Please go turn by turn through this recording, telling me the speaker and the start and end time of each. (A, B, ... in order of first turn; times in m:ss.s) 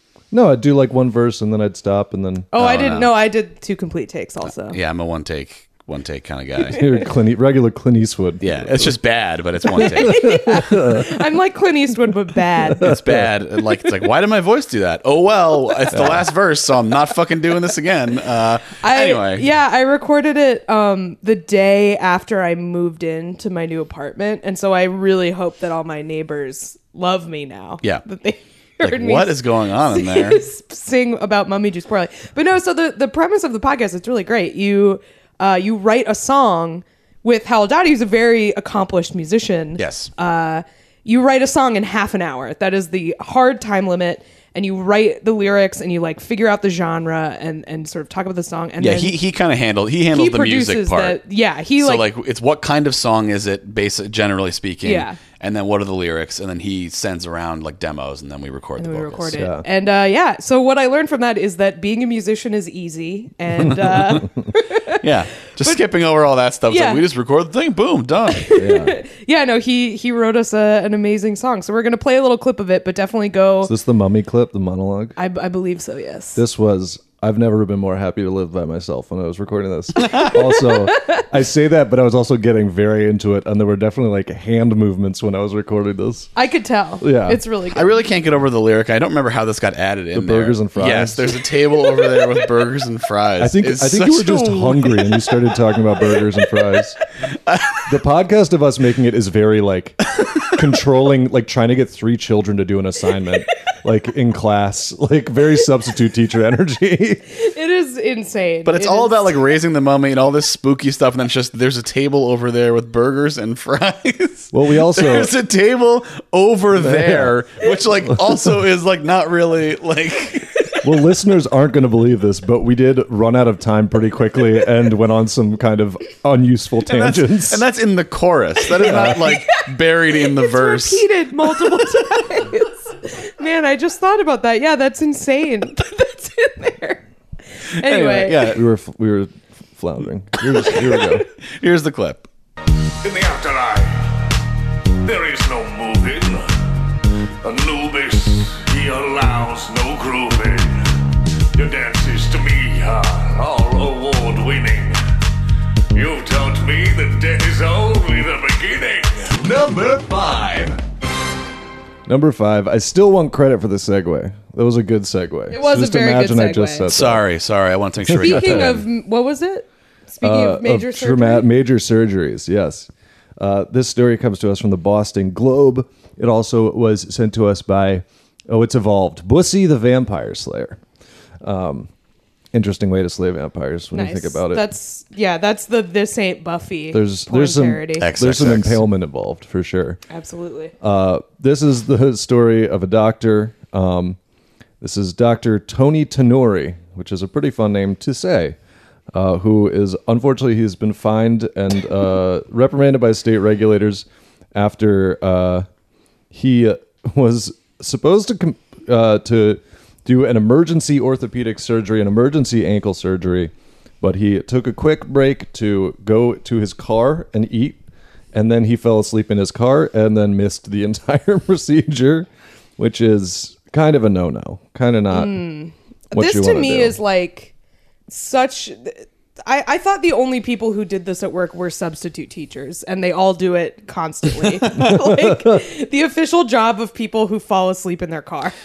0:00.3-0:02.5 A
0:02.5-0:04.8 B
0:02.6-0:03.1 C
0:04.6-0:06.8 C
0:06.7-0:09.0 A
0:08.4-0:10.4 C
0:09.7-0:12.9 B
0:09.8-0:11.1 A
0:12.6-0:13.3 A
0:12.8-0:19.5 C
0:15.9-0:16.3 A
0:18.8-0:49.2 B
0:28.8-0:30.4 C
0:39.8-0:40.1 C
0:48.8-0:51.2 C
0:50.1-0:52.1 B
0:51.8-0:59.4 C
0:54.8-0:55.2 B
0:58.8-1:05.0 B
0:59.3-0:59.7 A
1:03.7-1:04.3 A
1:05.0-1:08.5 C
1:06.7-1:07.0 B
1:08.4-1:13.7 B
1:08.6-1:09.0 A
1:13.6-1:15.2 A
1:15.2-1:16.4 B
1:16.4-1:26.3 A
1:20.1-1:20.4 B
1:26.4-1:28.0 B
1:27.0-1:27.4 A
1:27.7-1:35.3 C
1:30.1-1:31.3 A
1:33.4-1:37.0 A
1:37.5-1:37.9 C
1:37.9-1:47.2 A
1:47.3-1:49.5 B
1:48.7-2:00.8 C
1:54.5-1:55.3 A
1:56.8-1:57.4 A
1:58.0-1:58.5 A
2:00.8-2:07.6 A
2:06.8-2:11.1 C
2:08.8-2:09.6 B
2:08.8-2:09.2 A
2:10.3-2:17.0 B
2:17.7-2:18.5 B
2:17.8-2:18.6 C
2:18.2-2:21.2 A
2:21.4-2:22.3 C
2:23.0-2:24.0 D
2:25.0-2:26.5 D
2:27.4-2:30.8 D
2:31.6-2:35.0 D
2:35.9-2:40.8 D
2:42.1-2:47.2 A
2:45.5-2:46.9 B
2:46.9-2:48.9 C
2:48.1-2:48.8 A
2:48.1-2:51.5 B
2:50.2-3:00.8 A
3:01.4-3:01.9 A
3:02.5-3:04.7 A
3:03.9-3:08.1 B
3:06.9-3:10.0 A
3:08.0-3:08.8 C
3:10.1-3:10.7 B
3:10.8-3:14.2 A
3:14.8-3:18.6 A
3:19.1-3:25.7 A
3:26.3-3:37.8 A
3:38.3-3:45.4 A
3:45.1-3:47.5 B
3:46.1-3:47.0 A
3:48.1-3:58.6 B
3:54.7-3:55.6 A